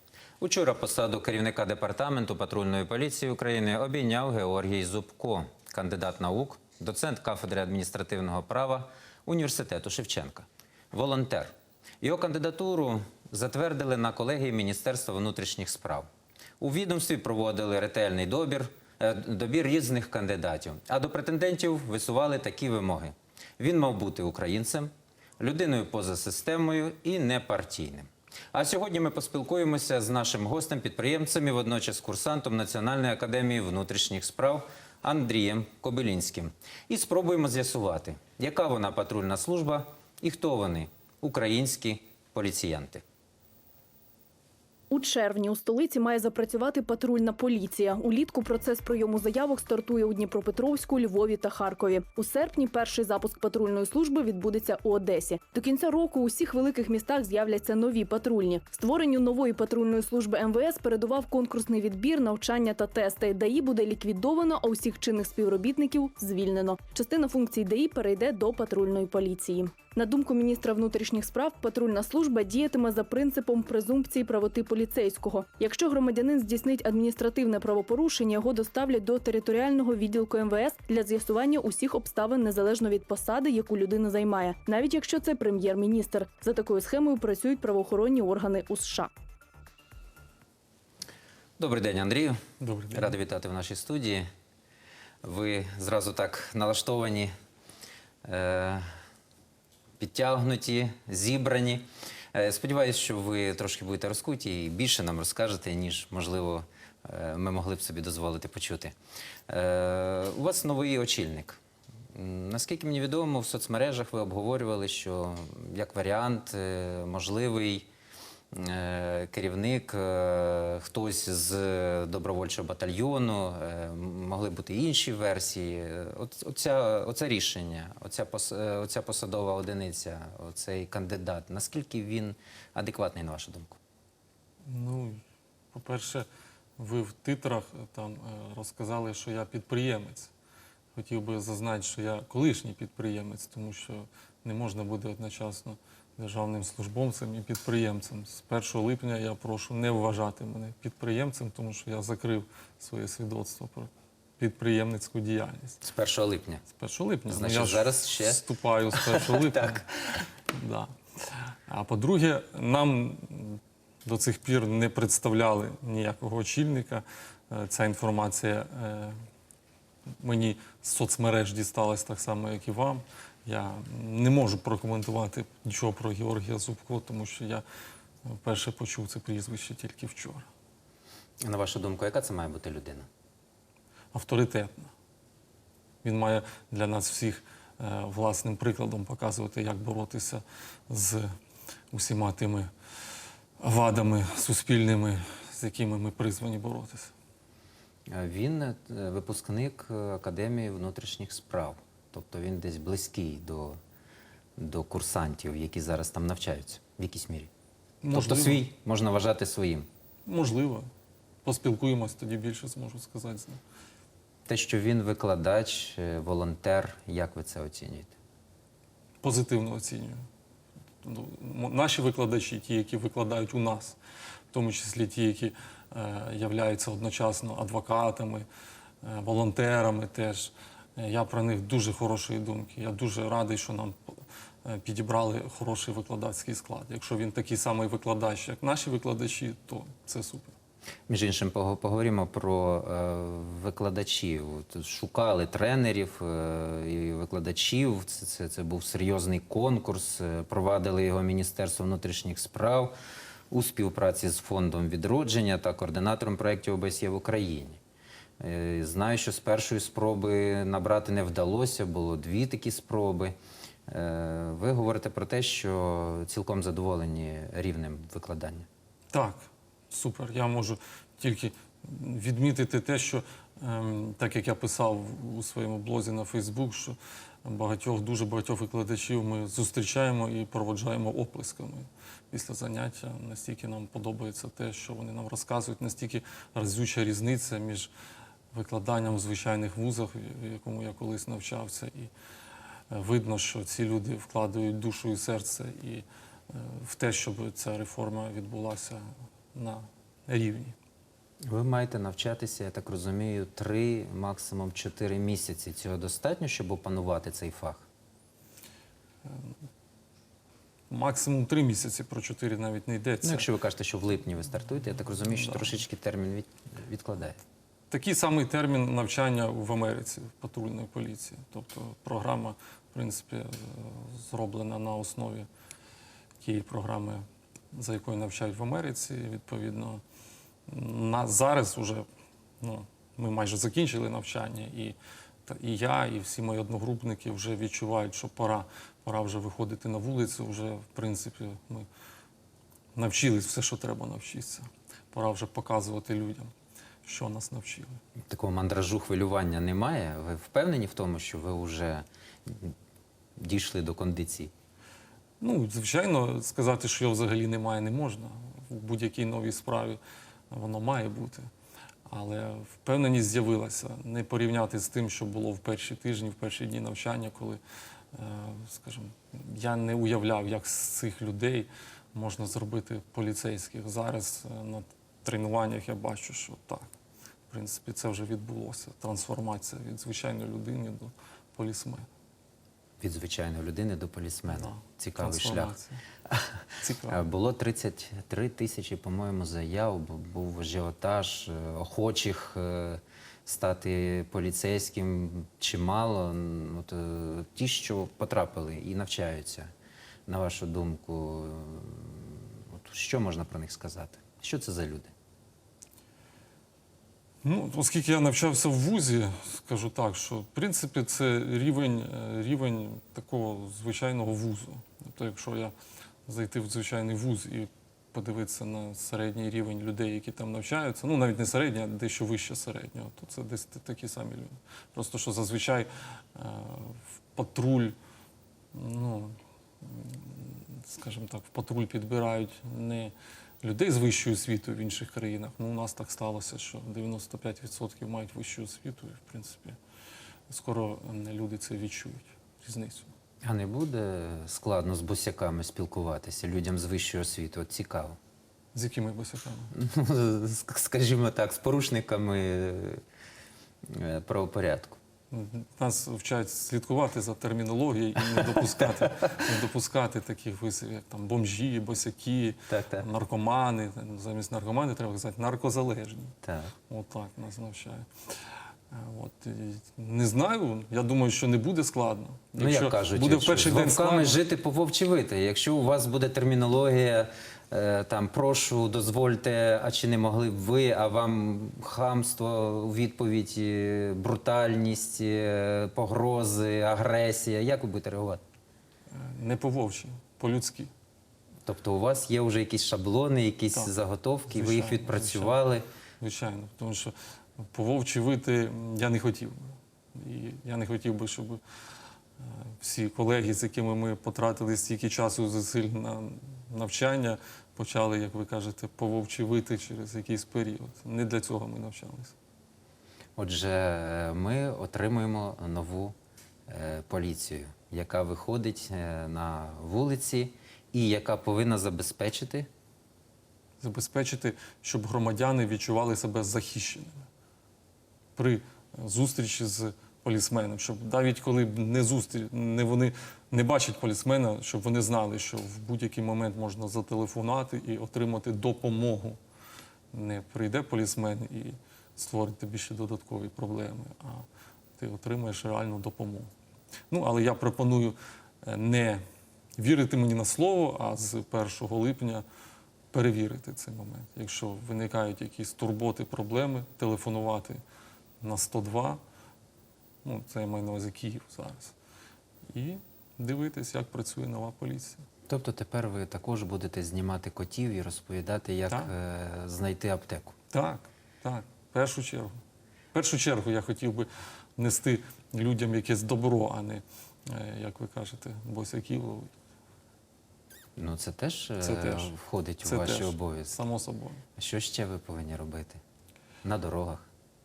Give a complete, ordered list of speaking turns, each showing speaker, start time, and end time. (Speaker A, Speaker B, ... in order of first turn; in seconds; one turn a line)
Speaker A: 0.4-16.1
Speaker A: 16.6-43.0
Speaker B: 44.9-89.1
Speaker A: 91.6-94.3
Speaker C: 92.6-93.2
Speaker A: 95.2-97.3
Speaker A: 98.2-98.8
Speaker A: 100.0-109.0
Speaker A: 109.5-111.6
Speaker A: 112.1-117.9
Speaker A: 118.5-133.8
Speaker C: 134.6-135.2
Speaker C: 135.7-136.3
Speaker C: 136.8-140.3
Speaker C: 140.9-155.8
Speaker A: 155.8-156.6
Speaker C: 156.7-159.9
Speaker A: 157.3-160.2
Speaker C: 160.5-169.2
Speaker C: 170.2-177.6
Speaker C: 178.2-180.5
Speaker A: 181.4-183.1
Speaker C: 184.1-184.9
Speaker C: 186.0-191.3
Speaker C: 191.9-192.7
Speaker C: 193.6-197.1
Speaker A: 198.1-203.8
Speaker A: 204.6-207.5
Speaker C: 208.0-208.7
Speaker A: 208.1-209.9
Speaker C: 210.3-210.9
Speaker C: 211.4-213.6
Speaker A: 214.5-218.1
Speaker C: 219.2-220.2
Speaker C: 221.0-224.0
Speaker C: 224.5-228.5
Speaker C: 229.0-240.6
Speaker A: 241.1-252.9
Speaker A: 253.5-257.8
Speaker A: 258.4-263.4
Speaker A: 263.9-268.7
Speaker C: 269.1-287.9
Speaker C: 288.5-292.1
Speaker C: 292.9-300.8
Speaker A: 301.5-307.9
Speaker C: 309.3-309.5
Speaker C: 310.9-313.5
Speaker A: 313.2-317.4
Speaker C: 317.9-325.5
Speaker C: 326.4-330.0
Speaker C: 330.7-332.1
Speaker C: 332.6-341.9
Speaker C: 342.9-346.5
Speaker C: 347.0-348.0
Speaker A: 348.3-352.8
Speaker A: 353.4-354.5
Speaker C: 355.4-360.0
Speaker C: 360.5-361.5
Speaker C: 362.1-367.6
Speaker C: 368.1-376.9
Speaker C: 377.5-382.1
Speaker A: 383.0-399.7
Speaker C: 384.5-386.0
Speaker C: 386.8-387.2
Speaker A: 400.3-405.1
Speaker C: 407.4-415.7
Speaker C: 416.3-428.0
Speaker C: 428.7-439.8
Speaker C: 440.5-443.1
Speaker A: 443.4-448.2
Speaker C: 448.7-449.7
Speaker A: 449.7-453.0
Speaker A: 453.9-455.0
Speaker C: 455.3-466.4
Speaker A: 458.4-459.3
Speaker A: 462.7-463.1
Speaker A: 466.4-466.7
Speaker C: 466.9-468.3
Speaker C: 468.9-474.4
Speaker A: 472.6-488.4
Speaker C: 489.1-490.9
Speaker A: 491.6-495.9
Speaker C: 494.5-495.6
Speaker C: 496.2-501.6
Speaker C: 502.4-512.4
Speaker A: 513.4-516.2
Speaker A: 516.7-522.7
Speaker C: 523.8-527.3
Speaker C: 528.4-539.4
Speaker C: 540.1-544.5
Speaker C: 545.0-546.5
Speaker C: 547.1-549.2
Speaker C: 549.8-552.4
Speaker C: 553.1-557.8
Speaker C: 558.4-559.2
Speaker C: 560.2-562.0
Speaker C: 562.7-565.3
Speaker A: 565.5-570.5
Speaker C: 570.7-572.6
Speaker C: 573.1-579.5
Speaker A: 581.0-583.8
Speaker C: 581.8-584.4
Speaker A: 584.6-586.0
Speaker A: 586.6-587.3